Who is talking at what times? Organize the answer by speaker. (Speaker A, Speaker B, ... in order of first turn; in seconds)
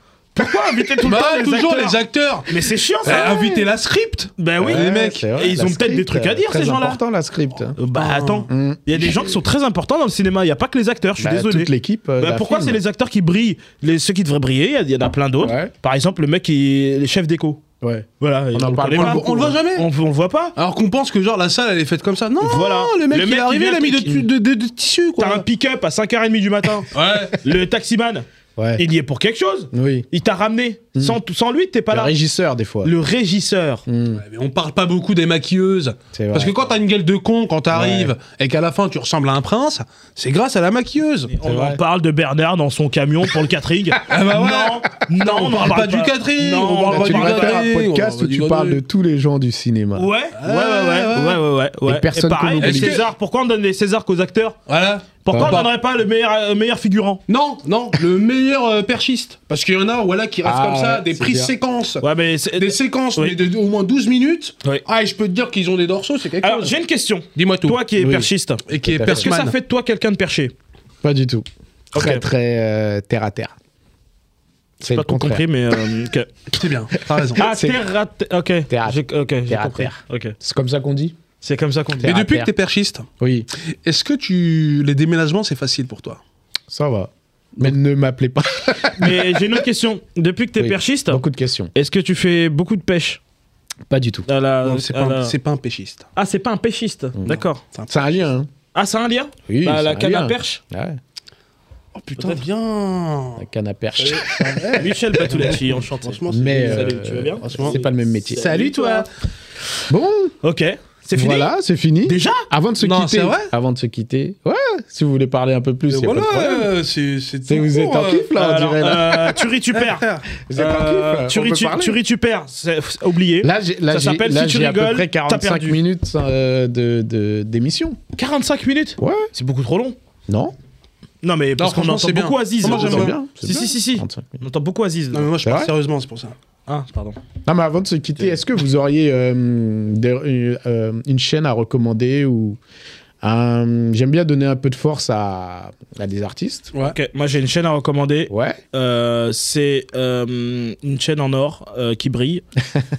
Speaker A: 0.3-3.3, 4.4-7.0, 7.8-17.6, 18.2-20.5, 22.4-24.2, 25.2-28.2, 28.8-32.1, 32.8-33.8, 41.3-47.6, 49.9-54.6, 55.2-57.2, 62.0-63.4, 66.4-70.5, 71.9-72.2, 74.8-76.3, 77.3-80.3, 81.4-82.1, 88.9-91.2, 91.7-93.2, 94.2-95.3, 96.2-97.6, 98.7-100.6, 102.2-102.4, 104.8-107.9, 110.4-111.5, 112.0-112.5, 118.3-125.8, 128.2-130.0, 131.2-135.3, 136.7-137.2, 146.8-152.4
Speaker B: 1.0-5.2, 7.9-8.5, 18.9-19.9, 20.6-25.4, 26.9-27.4, 34.1-41.3, 44.1-48.8, 50.4-51.4, 52.6-53.0, 54.7-55.7, 57.3-66.8, 67.3-67.9, 68.7-69.5, 76.5-77.5, 82.0-83.1, 83.6-86.2, 94.6-96.1, 97.7-98.0, 101.9-103.5, 104.0-109.1, 112.8-113.5, 115.9-118.3, 119.7-120.3, 131.6-133.2, 135.1-136.3
Speaker C: 3.0-3.7, 4.6-7.8, 8.5-9.4, 11.2-12.8, 15.4-15.7, 17.8-19.5, 28.6-28.8, 29.7-30.1, 31.9-32.9, 33.9-34.2, 36.1-36.6, 37.7-38.1, 41.4-41.8, 46.9-50.1, 51.9-53.0, 55.3-55.6, 60.4-61.5, 68.8-69.3, 71.0-73.5, 74.8-75.4, 77.3-77.8, 78.7-81.2, 82.0-82.5, 83.2-83.5, 86.7-89.5, 90.6-91.7, 93.9-94.3, 97.2-98.5, 99.5-101.0, 103.4-104.9, 106.3-109.0, 109.9-110.3, 111.1-116.7, 117.5-119.4, 120.4-122.0, 123.4-128.0, 129.0-129.3, 130.3-130.5, 132.6-134.4, 135.4-135.7, 137.4-142.6, 143.2-146.7, 148.3-148.6